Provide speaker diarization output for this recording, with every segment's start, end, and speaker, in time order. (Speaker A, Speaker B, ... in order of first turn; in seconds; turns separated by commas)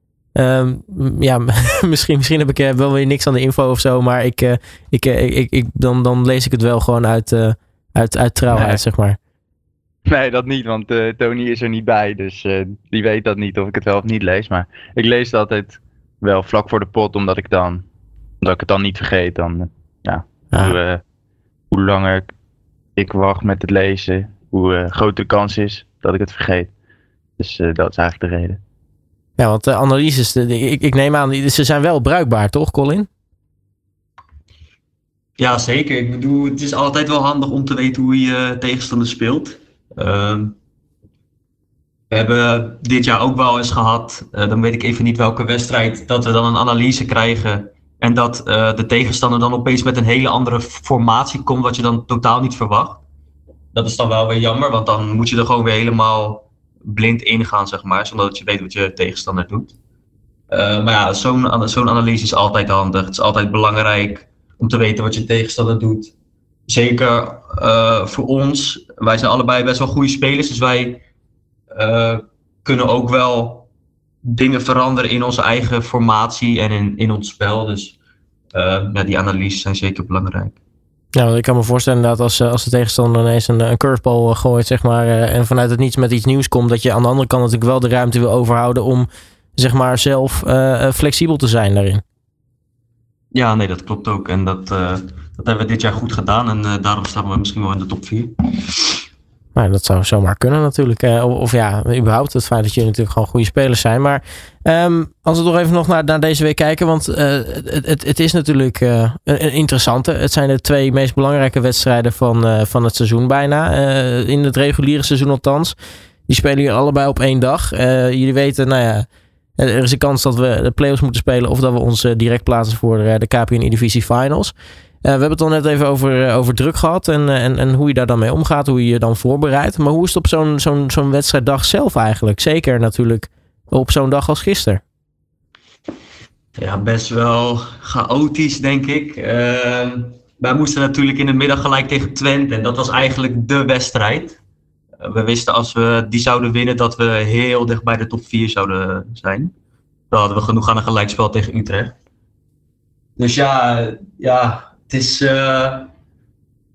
Speaker A: 0.3-9.2, Speaker B: 8.5-8.8, Speaker B: 10.1-17.9, Speaker B: 18.4-21.0, Speaker B: 21.7-22.3, Speaker B: 23.0-26.7, Speaker B: 27.4-28.6, Speaker A: 29.4-33.1, Speaker C: 35.4-40.5, Speaker C: 42.1-53.0, Speaker C: 53.7-59.7, Speaker C: 60.5-66.1, Speaker C: 66.7-71.0, Speaker C: 71.7-73.7, Speaker C: 74.2-77.9, Speaker C: 78.5-80.6, Speaker A: 81.1-92.0, Speaker C: 93.3-98.5, Speaker A: 99.5-115.7, Speaker A: 116.3-119.1, Speaker A: 119.6-134.8, Speaker C: 136.6-144.4, Speaker C: 145.0-149.5, Speaker C: 150.1-151.9, Speaker C: 153.2-155.9